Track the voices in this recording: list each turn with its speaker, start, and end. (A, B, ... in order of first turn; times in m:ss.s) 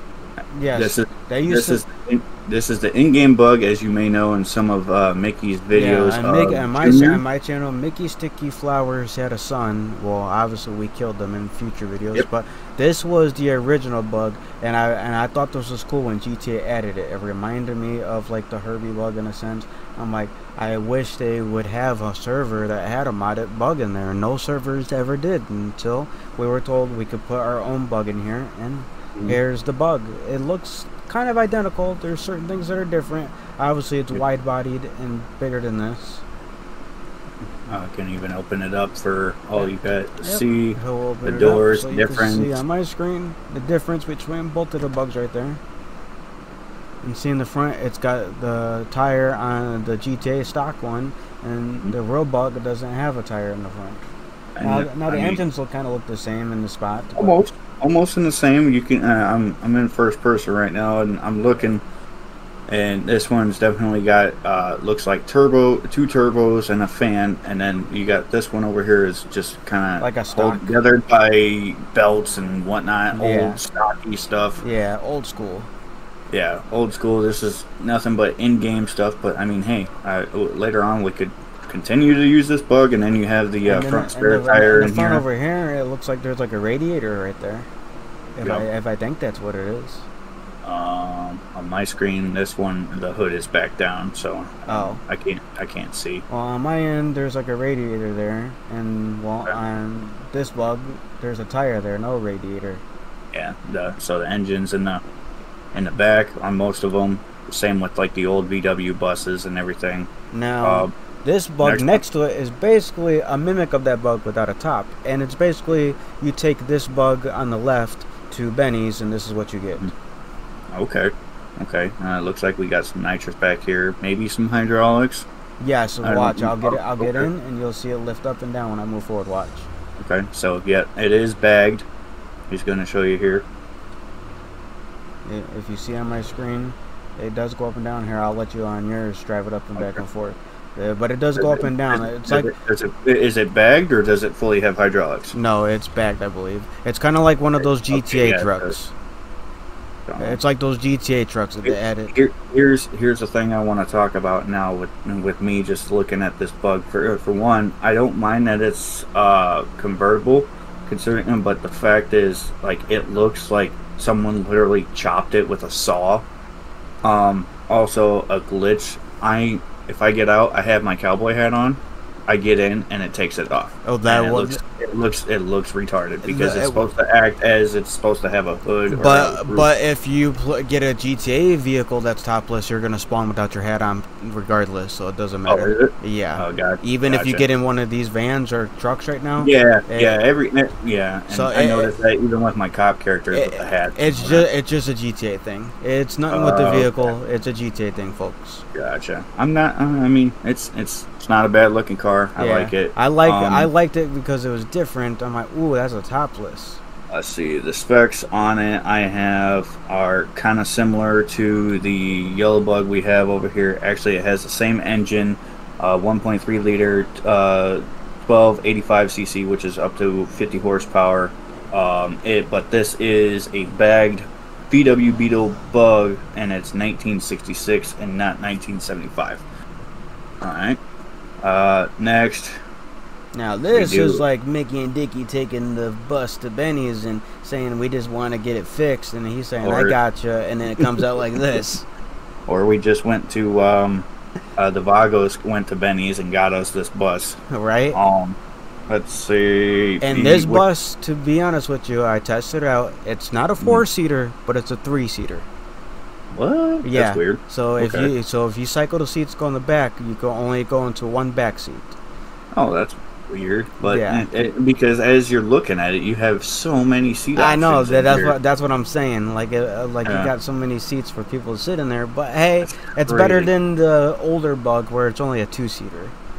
0:00.5-0:01.8 A
0:00.8-0:07.2 B
0:05.7-0:36.2 A
0:37.7-0:42.6 B
0:40.2-0:45.6 A
0:47.0-0:54.1 A
0:54.6-0:55.4 B
0:54.6-0:57.4 A
0:57.2-1:01.8 B
1:02.7-1:14.6 B
1:10.0-1:10.8 A
1:13.1-1:13.6 A
1:14.6-1:15.7 A
1:16.3-1:25.2 B
1:23.7-1:27.7 A
1:28.4-1:30.1 A
1:30.6-1:36.2 B
1:34.7-1:35.0 A
1:36.3-1:42.8 A
1:43.3-1:45.0 B
1:45.7-1:50.1 B
1:50.3-1:59.9 A
1:50.6-1:50.9 B
1:51.6-1:52.0 B
2:00.7-2:05.3 B
2:05.6-2:09.7 A
2:06.0-2:07.3 B
2:10.0-2:11.9 B
2:12.5-2:13.5 B
2:15.2-2:22.5 A
2:19.8-2:20.0 B
2:21.4-2:25.4 B
2:25.3-2:28.9 A
2:27.6-2:28.8 B
2:30.1-2:30.4 B
2:30.2-2:32.1 A
2:31.6-2:46.3 B
2:47.0-2:59.7 B
2:53.8-2:54.6 A
2:56.2-2:56.8 A
2:58.9-3:10.2 A
3:05.5-3:07.5 B
3:09.4-3:14.5 B
3:11.3-3:11.9 A
3:13.3-3:18.7 A
3:16.3-3:17.1 B
3:18.7-3:23.7 B
3:22.4-3:26.8 A
3:27.1-3:49.4 B
3:50.4-3:50.8 B
3:51.4-3:52.6 B
3:53.4-4:01.9 A
3:53.7-3:54.2 B
3:59.6-4:00.0 B
4:02.5-4:07.4 B
4:07.5-4:08.0 A
4:07.9-4:08.4 B
4:08.9-4:10.6 B
4:10.0-4:15.5 A
4:16.3-4:18.1 B
4:16.8-4:22.0 A
4:22.5-4:28.4 B
4:23.8-4:24.2 A
4:27.4-4:36.2 A
4:30.0-4:30.3 B
4:32.6-4:33.5 B